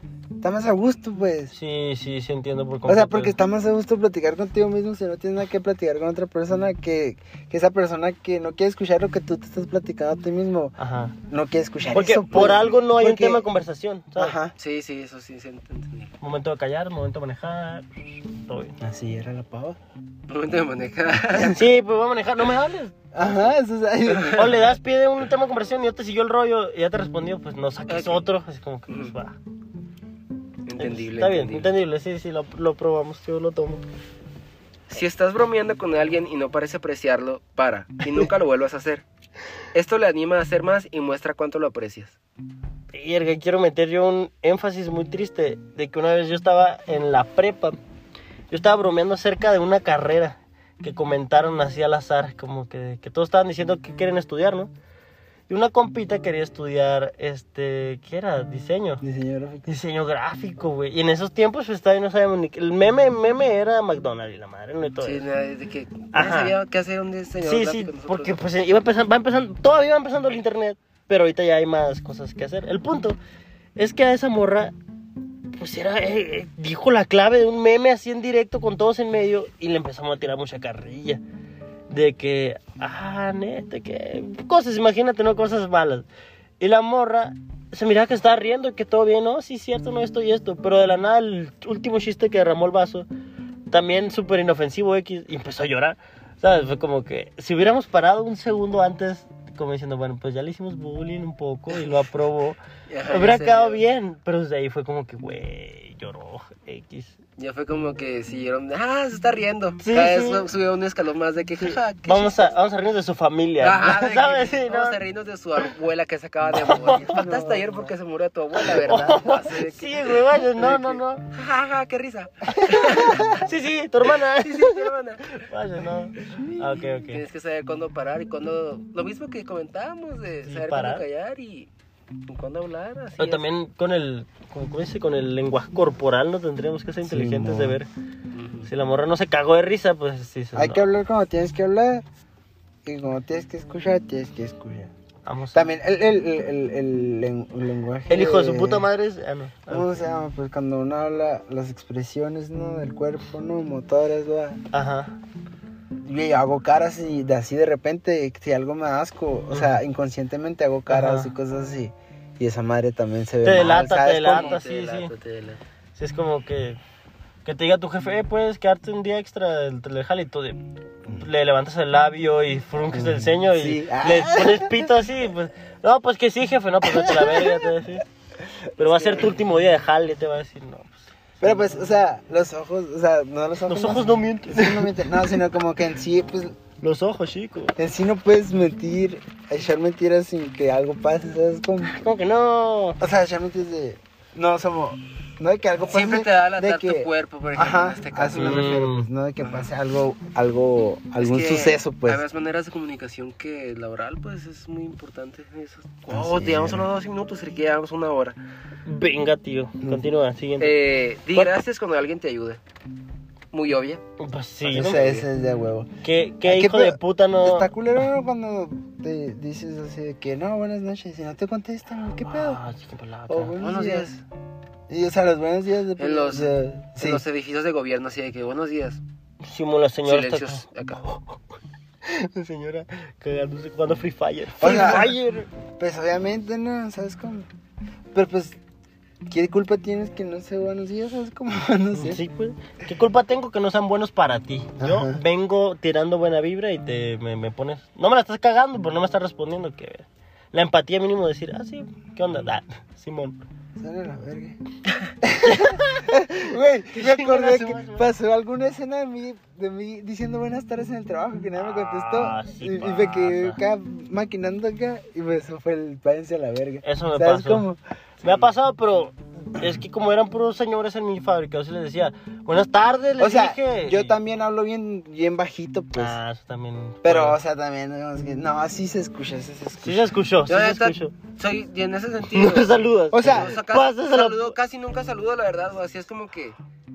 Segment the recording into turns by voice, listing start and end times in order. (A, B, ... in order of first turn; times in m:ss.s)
0:00.4-0:01.5 A
0:01.5-0:03.3 B
0:02.8-0:13.4 A
0:10.8-0:11.1 B
0:11.9-0:14.4 B
0:14.2-0:14.5 A
0:14.6-0:16.1 C
0:16.2-0:18.8 B
0:18.8-0:19.8 A
0:20.3-0:21.6 C
0:21.4-0:22.9 B
0:23.1-0:24.6 A
0:24.1-0:24.4 C
0:24.3-0:29.4 B
0:27.9-0:28.2 C
0:28.9-0:29.1 C
0:30.6-0:31.7 C
0:30.8-0:33.8 B
0:34.9-0:39.0 C
0:39.7-0:42.2 C
0:42.9-0:47.8 B
0:48.5-0:54.7 B
0:55.5-0:59.0 B
0:59.0-0:59.7 A
0:59.7-1:05.2 B
1:05.0-1:08.4 C
1:06.1-1:06.6 B
1:07.4-1:13.2 B
1:13.8-1:14.7 B
1:15.6-1:21.2 B
1:21.9-1:26.0 B
1:26.6-1:33.1 B
1:33.7-1:42.6 B
1:42.9-1:43.8 C
1:43.1-1:47.2 B
1:47.4-1:52.5 C
1:49.8-1:50.4 B
1:51.6-1:55.0 B
1:53.6-2:03.5 C
1:56.5-1:57.2 B
1:56.9-1:57.9 A
1:58.6-2:01.2 B
2:02.9-2:07.2 B
2:03.0-2:03.3 A
2:04.1-2:05.4 C
2:06.3-2:06.6 A
2:07.0-2:11.7 C
2:10.4-2:11.0 B
2:12.3-2:13.4 C
2:13.2-2:17.9 B
2:17.0-2:17.8 A
2:18.3-2:18.7 C
2:18.6-2:20.9 B
2:20.5-2:22.0 A
2:22.8-2:24.9 A
2:25.2-2:25.7 B
2:25.5-2:28.8 A
2:28.1-2:30.0 B
2:29.7-2:34.6 A
2:34.7-2:35.1 B
2:36.0-2:44.6 A
2:39.5-2:39.8 B
2:40.9-2:41.3 B
2:43.4-2:45.1 B
2:44.2-2:45.6 C
2:46.0-2:46.8 B
2:47.4-2:50.6 B
2:51.2-2:58.0 B
2:52.9-2:54.9 A
2:56.8-2:57.7 A
2:58.8-3:01.6 B
2:58.8-2:59.3 A
3:01.4-3:06.6 A
3:03.7-3:04.9 B
3:06.8-3:07.8 B
3:07.8-3:12.0 A
3:11.9-3:13.0 B
3:13.0-3:22.2 A
3:15.9-3:18.8 C
3:18.4-3:19.1 B
3:21.2-3:28.4 C
3:26.1-3:26.8 A
3:28.8-3:30.8 B
3:29.8-3:30.1 A
3:30.6-3:32.6 C
3:33.5-3:34.0 C
3:34.2-3:35.2 B
3:34.6-3:35.2 C
3:34.7-3:35.9 A
3:36.0-3:37.7 B
3:36.4-3:42.6 A
3:42.2-3:43.8 B
3:43.3-3:44.2 A
3:43.6-3:44.1 C
3:44.9-3:47.2 A
3:46.0-3:49.0 C
3:49.4-3:51.4 B
3:50.0-3:51.0 C
3:52.0-3:55.5 B
3:54.6-3:55.2 A
3:55.7-3:57.5 A
3:58.1-3:58.6 A
3:59.2-4:02.2 A
4:02.0-4:13.4 B
4:04.8-4:05.2 A
4:13.8-4:14.6 A
4:15.2-4:27.8 A
4:15.4-4:16.2 B
4:16.9-4:18.1 B
4:21.6-4:23.6 B
4:26.8-4:27.6 B
4:28.2-4:34.2 B
4:33.2-4:36.2 A
4:36.0-4:37.4 B
4:37.0-4:40.1 A
4:39.8-4:41.1 B
4:40.5-4:46.6 C
4:42.3-4:44.5 B
4:43.1-4:43.6 A